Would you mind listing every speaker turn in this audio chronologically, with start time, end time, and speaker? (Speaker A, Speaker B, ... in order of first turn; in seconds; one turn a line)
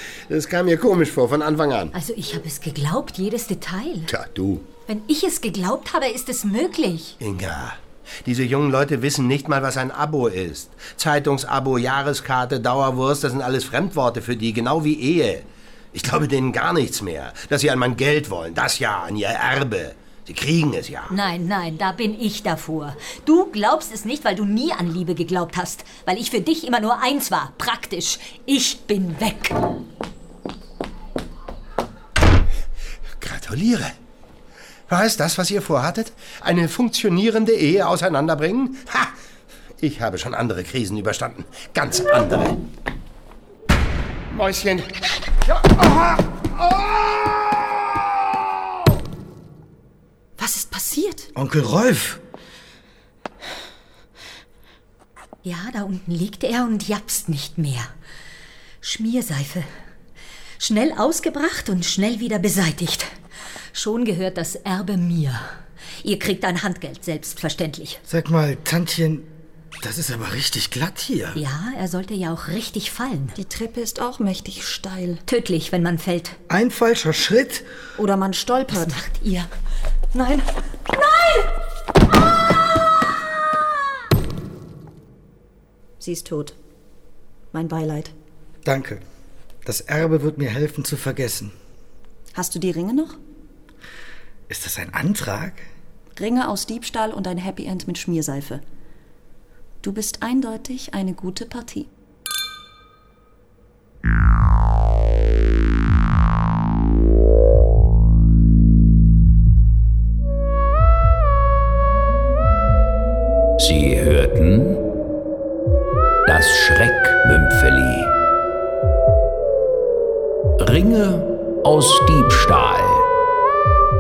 Speaker A: 0.3-1.9
Speaker B: 1.9-4.1
Speaker A: 4.1-4.7
Speaker B: 4.9-7.2
Speaker A: 7.2-21.1
Speaker B: 21.1-29.6
Speaker A: 33.2-33.9
Speaker A: 34.9-39.1
Speaker A: 39.8-42.6
Speaker A: 44.3-44.9
Speaker A: 45.6-46.1
Speaker C: 50.4-51.3
Speaker D: 51.4-52.2
Speaker B: 55.4-57.9
Speaker B: 58.8-59.7
Speaker B: 60.6-63.1
Speaker B: 63.7-65.5
Speaker B: 66.0-68.0
Speaker D: 68.1-69.3
Speaker D: 69.8-71.4
Speaker B: 71.3-73.4
Speaker C: 73.4-75.2
Speaker B: 75.2-76.4
Speaker D: 76.5-77.7
Speaker C: 78.0-79.0
Speaker B: 78.7-79.5
Speaker B: 80.1-80.4
Speaker C: 86.0-86.6
Speaker C: 87.5-88.1
Speaker D: 88.6-89.0
Speaker D: 89.6-91.5
Speaker C: 92.3-93.2
Speaker D: 94.5-95.7
Speaker C: 96.2-98.6
Speaker C: 99.8-101.9
Speaker E: 113.6-114.9
Speaker E: 116.2-118.2
Speaker E: 120.6-123.1